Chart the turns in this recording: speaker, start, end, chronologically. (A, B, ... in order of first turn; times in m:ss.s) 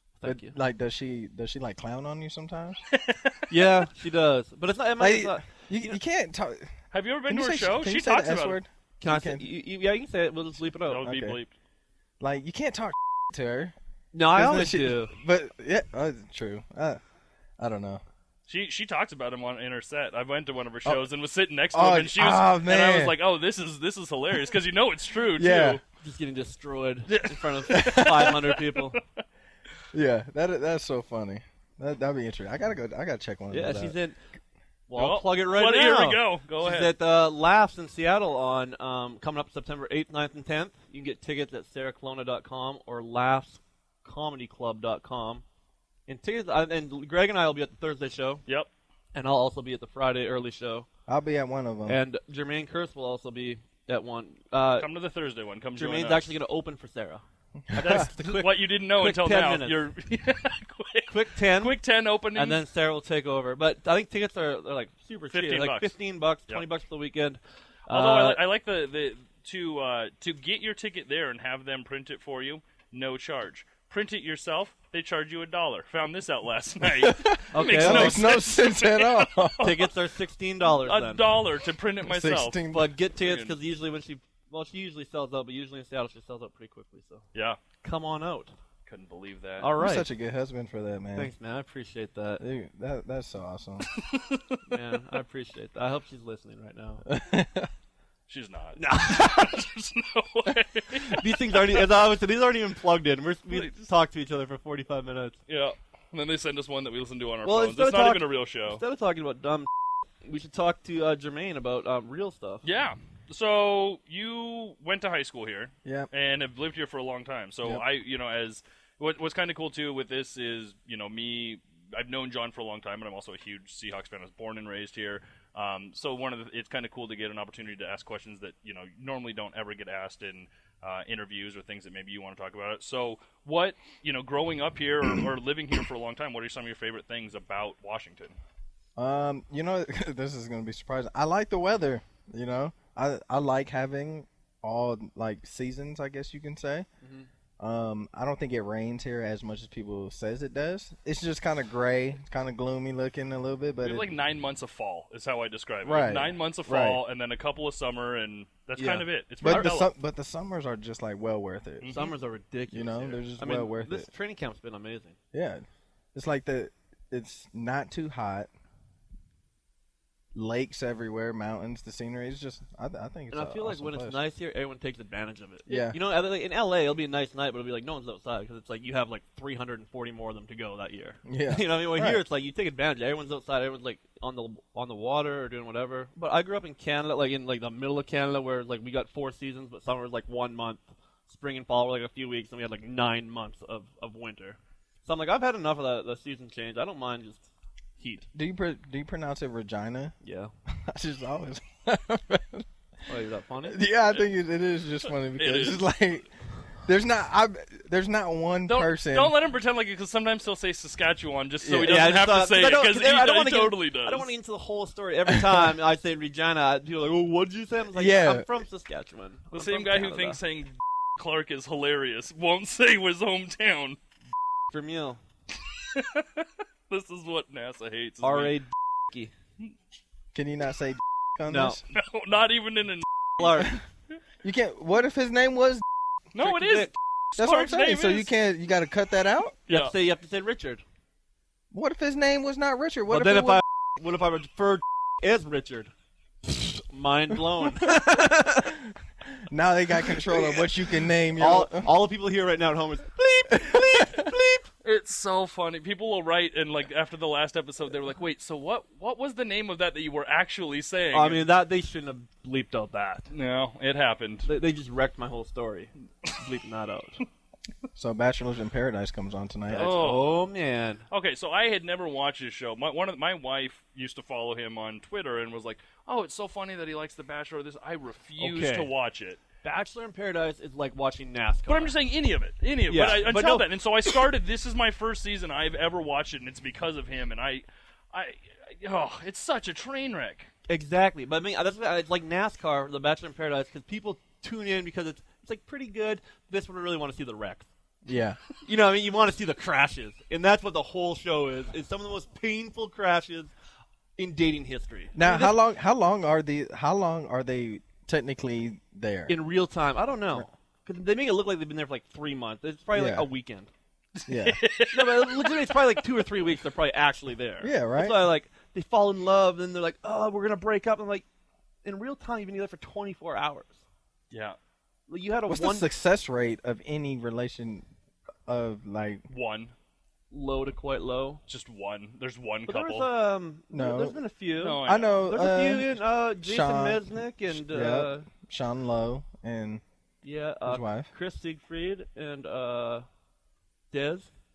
0:00.2-0:00.5 A
0:00.2-0:02.8 B
0:02.9-0:03.6 C
0:03.5-0:06.0 A
0:05.0-0:06.7 B
0:06.9-0:08.6 C
0:07.3-0:09.5 B
0:09.0-0:11.1 A
0:10.9-0:11.5 C
0:11.0-0:11.4 B
0:12.2-0:13.7 B
0:14.1-0:15.1 A
0:14.3-0:17.0 B
0:17.6-0:18.0 B
0:18.5-0:25.8 C
0:21.7-0:23.2 B
0:25.3-0:25.8 B
0:26.0-0:29.0 A
0:27.1-0:29.2 C
0:27.7-0:28.4 B
0:29.9-0:34.0 B
0:33.5-0:34.2 A
0:34.9-0:45.4 A
0:34.9-0:36.9 C
0:46.1-0:48.4 A
0:49.1-0:50.9 A
0:51.1-0:52.0 B
0:51.9-0:54.9 A
0:54.8-0:56.3 C
0:55.8-0:59.8 A
0:57.7-0:58.1 B
0:58.2-1:02.6 C
1:01.1-1:01.8 A
1:02.3-1:08.4 A
1:05.3-1:05.9 C
1:07.9-1:19.9 C
1:17.0-1:19.6 B
1:17.5-1:18.3 A
1:19.6-1:21.2 A
1:20.7-1:23.5 C
1:22.0-1:22.9 B
1:22.7-1:27.2 A
1:27.3-1:27.6 C
1:27.8-1:28.5 A
1:28.8-1:29.7 C
1:29.6-1:30.1 A
1:29.8-1:31.3 B
1:31.1-1:32.4 A
1:32.4-1:33.9 B
1:33.9-1:34.7 C
1:34.7-1:37.0 A
1:37.0-1:37.7 B
1:38.3-1:41.8 C
1:38.8-1:39.6 A
1:41.0-1:45.4 A
1:43.5-1:43.7 C
1:45.5-1:48.8 C
1:47.4-1:49.7 A
1:50.2-1:52.6 A
1:52.6-2:18.4 C
2:19.0-2:26.8 B
2:27.0-2:27.3 A
2:27.6-2:34.0 B
2:33.8-2:39.9 C
2:35.8-2:37.0 B
2:38.8-2:39.7 A
2:39.4-2:41.9 B
2:41.8-2:42.1 C
2:41.9-2:45.2 A
2:42.7-2:44.1 B
2:45.3-2:48.5 B
2:50.3-2:54.2 B
2:53.3-3:18.3 A
2:55.7-2:56.0 B
3:01.2-3:02.2 B
3:18.3-3:20.1 B
3:20.2-3:20.5 A
3:20.7-3:22.6 B
3:23.1-3:23.8 A
3:23.6-3:29.3 B
3:25.3-3:25.8 C
3:28.7-3:34.3 C
3:31.6-3:32.0 B
3:31.8-3:40.4 A
3:35.3-3:35.7 B
3:37.9-3:38.5 B
3:39.5-3:44.0 C
3:44.7-3:45.2 A
3:45.6-3:48.6 C
3:48.2-3:49.3 A
3:50.3-3:51.8 B
3:51.5-3:51.8 A
3:51.9-3:53.7 C
3:53.4-3:53.8 A
3:54.4-3:55.8 B
3:56.3-3:58.3 C
3:56.4-3:56.9 A
3:57.4-3:59.6 B
3:59.7-3:59.9 C
3:59.7-4:00.8 A
4:01.7-4:03.6 B
4:03.1-4:05.9 A
4:06.4-4:08.7 A
4:07.8-4:11.9 B
4:11.4-4:14.7 A
4:13.6-4:14.3 B
4:14.8-4:21.4 C
4:21.1-4:23.3 A
4:23.3-4:24.5 C
4:24.4-4:27.2 A
4:27.9-4:30.0 B
4:29.7-4:31.0 A
4:29.7-4:30.3 C
4:31.1-4:39.4 C
4:38.4-4:38.9 A
4:39.6-4:41.9 A
4:41.7-4:50.5 C
4:42.9-4:43.7 A
4:50.7-4:57.7 A
4:58.0-4:58.4 B
4:58.6-5:03.5 A
5:04.2-5:05.6 A
5:05.1-5:09.3 B
5:09.3-5:13.7 A
5:12.9-5:13.3 B
5:14.2-5:15.9 C
5:14.3-5:14.6 B
5:14.9-5:21.2 A
5:17.6-5:18.3 B
5:21.8-5:23.8 A
5:24.3-5:24.6 C
5:25.1-5:25.9 A
5:25.5-5:27.8 B
5:28.5-5:29.2 B
5:29.3-5:29.7 C
5:30.3-5:31.4 A
5:31.5-5:33.1 C
5:32.7-5:38.3 A
5:33.7-5:34.2 B
5:34.6-5:35.2 C
5:34.8-5:39.8 B
5:40.2-5:43.0 A
5:40.6-5:41.1 B
5:43.9-5:44.3 A